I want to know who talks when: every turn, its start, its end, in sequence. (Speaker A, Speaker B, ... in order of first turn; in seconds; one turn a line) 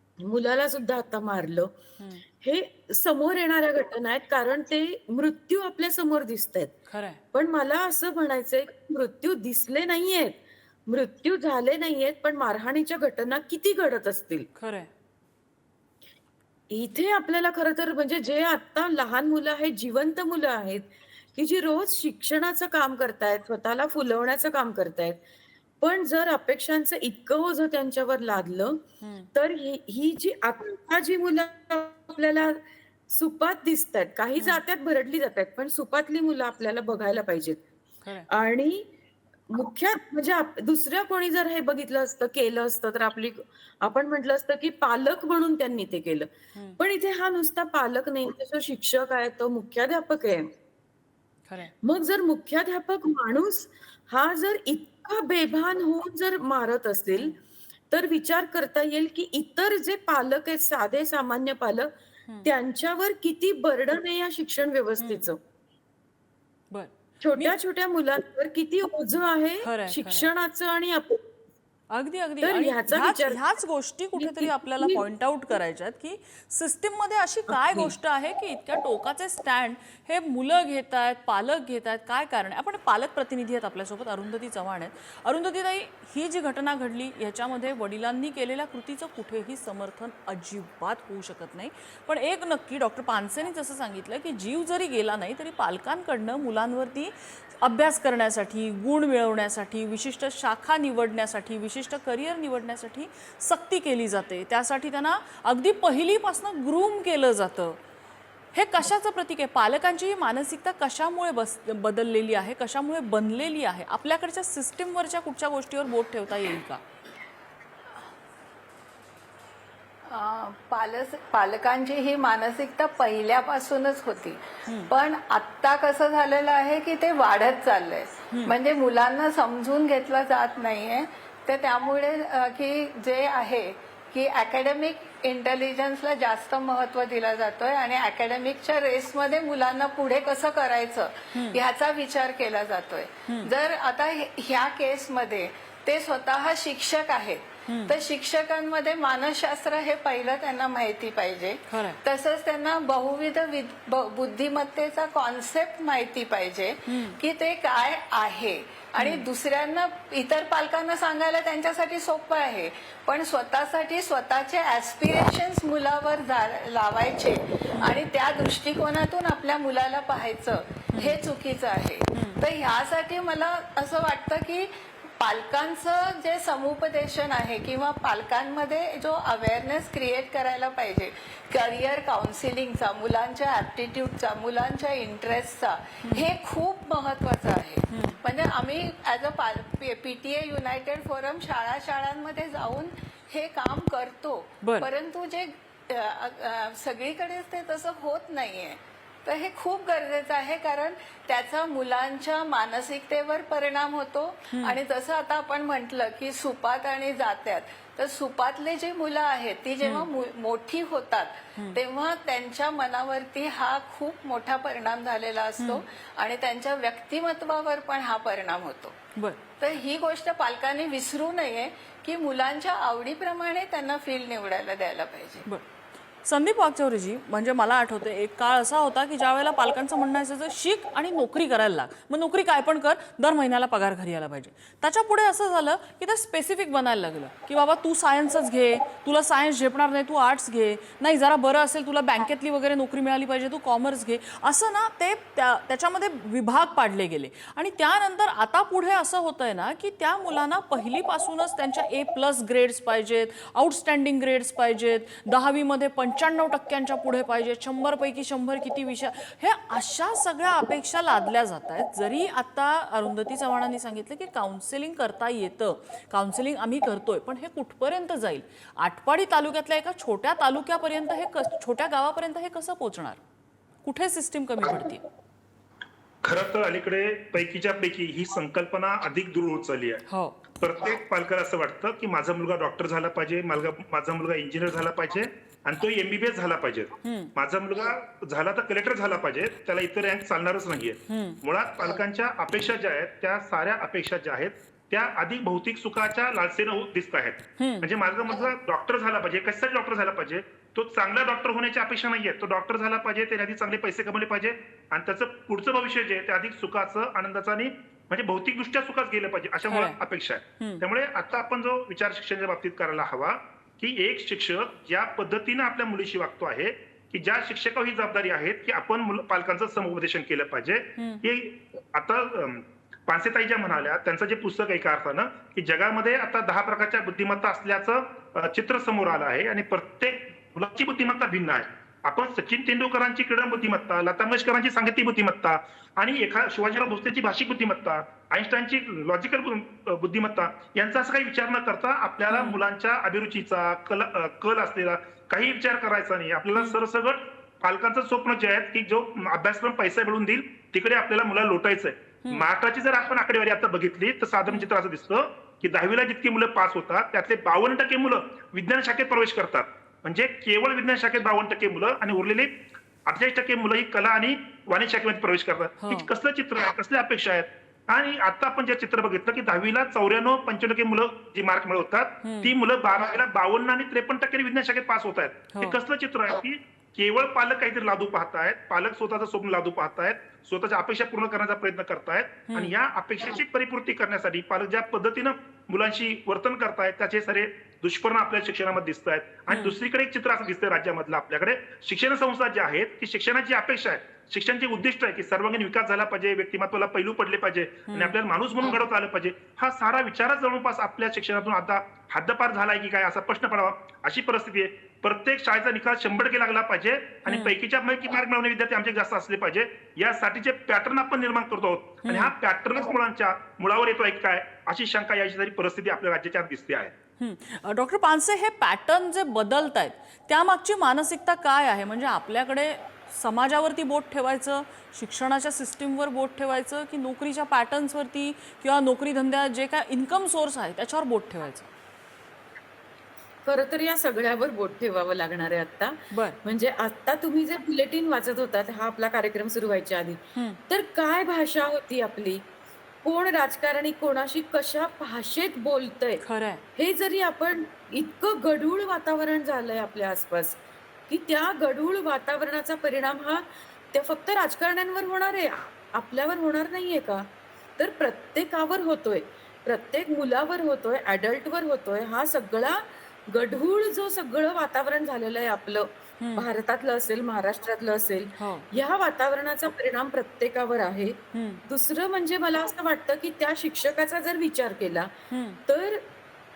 Speaker A: 0.2-1.7
Speaker A: 2.4-6.7
Speaker B: 6.9-7.2
Speaker A: 7.3-14.5
Speaker B: 14.6-14.9
Speaker A: 16.7-25.2
Speaker A: 25.8-28.8
Speaker B: 29.0-29.3
Speaker A: 29.3-37.6
Speaker B: 34.4-34.6
Speaker A: 38.3-38.9
Speaker A: 39.5-50.5
Speaker B: 46.5-46.8
Speaker A: 51.8-57.4
Speaker A: 57.9-61.9
Speaker A: 62.4-65.4
Speaker B: 65.0-65.3
Speaker B: 66.7-67.6
Speaker A: 67.2-71.2
Speaker B: 69.6-70.3
Speaker B: 71.9-107.8
Speaker A: 72.4-73.5
Speaker A: 74.2-75.0
Speaker A: 77.5-77.9
Speaker B: 108.5-116.8
Speaker C: 120.0-219.0
Speaker B: 141.3-141.6
Speaker B: 147.7-147.9
Speaker B: 151.7-152.0
Speaker B: 156.9-157.2
Speaker B: 159.0-159.2
Speaker B: 170.9-171.2
Speaker B: 172.1-172.4
Speaker B: 187.9-188.2
Speaker B: 194.6-194.9
Speaker B: 204.5-204.8
Speaker B: 209.8-210.1
Speaker C: 219.6-225.4
Speaker B: 226.2-273.2
Speaker B: 273.8-275.0
Speaker D: 276.2-280.0
Speaker B: 280.1-280.4
Speaker D: 280.6-416.9
Speaker B: 287.0-287.3
Speaker B: 291.1-291.4
Speaker B: 297.6-297.9
Speaker B: 309.7-310.0
Speaker B: 321.0-321.2
Speaker B: 342.3-342.6
Speaker B: 365.8-366.1
Speaker B: 372.2-372.5
Speaker B: 389.5-389.7
Speaker B: 397.9-398.1
Speaker B: 407.3-407.5
Speaker B: 412.0-412.3
Speaker B: 417.2-431.7
Speaker A: 433.4-442.4
Speaker B: 436.1-436.4
Speaker B: 440.4-440.6
Speaker A: 443.0-446.2
Speaker B: 446.2-446.6
Speaker A: 446.8-475.1
Speaker B: 466.2-466.5
Speaker B: 468.4-468.7
Speaker B: 471.3-471.6
Speaker B: 475.3-475.6
Speaker A: 475.6-476.0